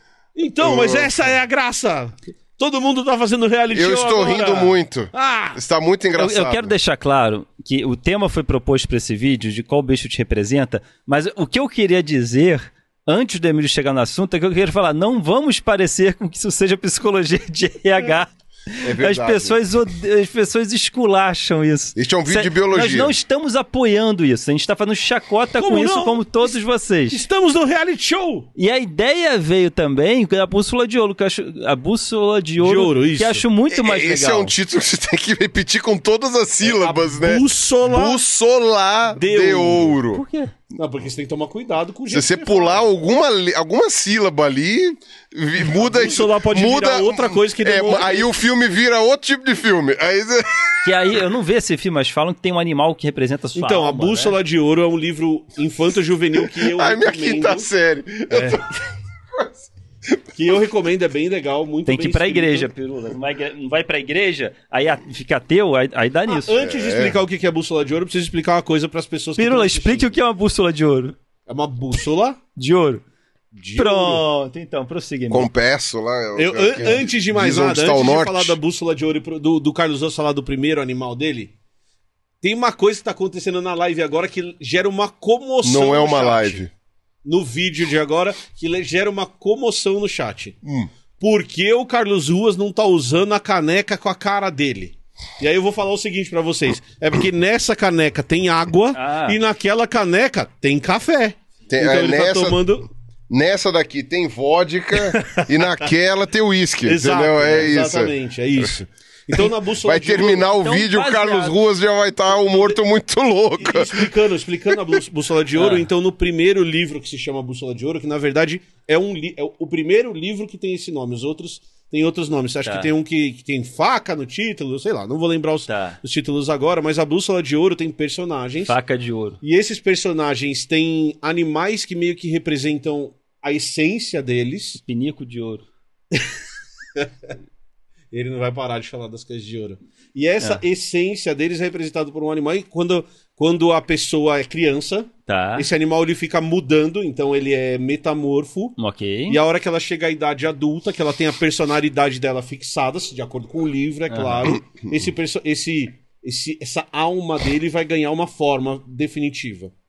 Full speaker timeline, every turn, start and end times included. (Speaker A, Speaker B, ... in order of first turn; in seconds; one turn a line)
Speaker A: 0.3-5.6
Speaker B: 0.6-1.3
Speaker B: 3.7-6.7
Speaker C: 6.1-18.3
Speaker C: 18.8-27.2
Speaker B: 18.8-19.6
Speaker B: 21.9-23.1
Speaker A: 25.6-26.5
Speaker A: 27.1-28.5
Speaker C: 28.6-34.5
Speaker A: 32.6-33.4
Speaker B: 33.7-40.2
Speaker A: 36.6-38.2
Speaker A: 39.2-40.0
Speaker C: 40.1-40.5
Speaker A: 40.8-42.8
Speaker B: 42.1-50.9
Speaker A: 45.6-48.3
Speaker C: 50.8-54.4
Speaker A: 53.5-57.7
Speaker B: 56.4-58.7
Speaker A: 58.3-58.6
Speaker B: 59.3-59.7
Speaker A: 60.3-62.7
Speaker C: 61.9-66.6
Speaker A: 66.3-70.1
Speaker B: 66.5-67.2
Speaker C: 69.4-71.1
Speaker A: 71.5-72.4
Speaker C: 72.6-73.0
Speaker A: 73.5-74.2
Speaker C: 73.7-75.5
Speaker B: 75.3-78.6
Speaker A: 76.3-81.5
Speaker A: 82.4-86.6
Speaker B: 85.6-86.7
Speaker A: 87.2-90.6
Speaker B: 90.6-90.9
Speaker A: 91.2-102.9
Speaker C: 98.9-99.4
Speaker B: 101.7-102.6
Speaker B: 103.3-108.1
Speaker A: 105.0-105.5
Speaker A: 106.8-110.5
Speaker B: 109.3-114.1
Speaker C: 110.5-111.6
Speaker A: 113.6-128.8
Speaker B: 114.7-115.0
Speaker C: 115.5-115.9
Speaker C: 122.6-122.9
Speaker C: 125.7-126.0
Speaker C: 128.6-129.4
Speaker A: 129.4-134.8
Speaker C: 134.8-135.6
Speaker A: 137.0-137.3
Speaker A: 138.1-148.8
Speaker C: 145.3-145.7
Speaker C: 148.8-149.4
Speaker A: 149.3-159.7
Speaker C: 154.1-154.5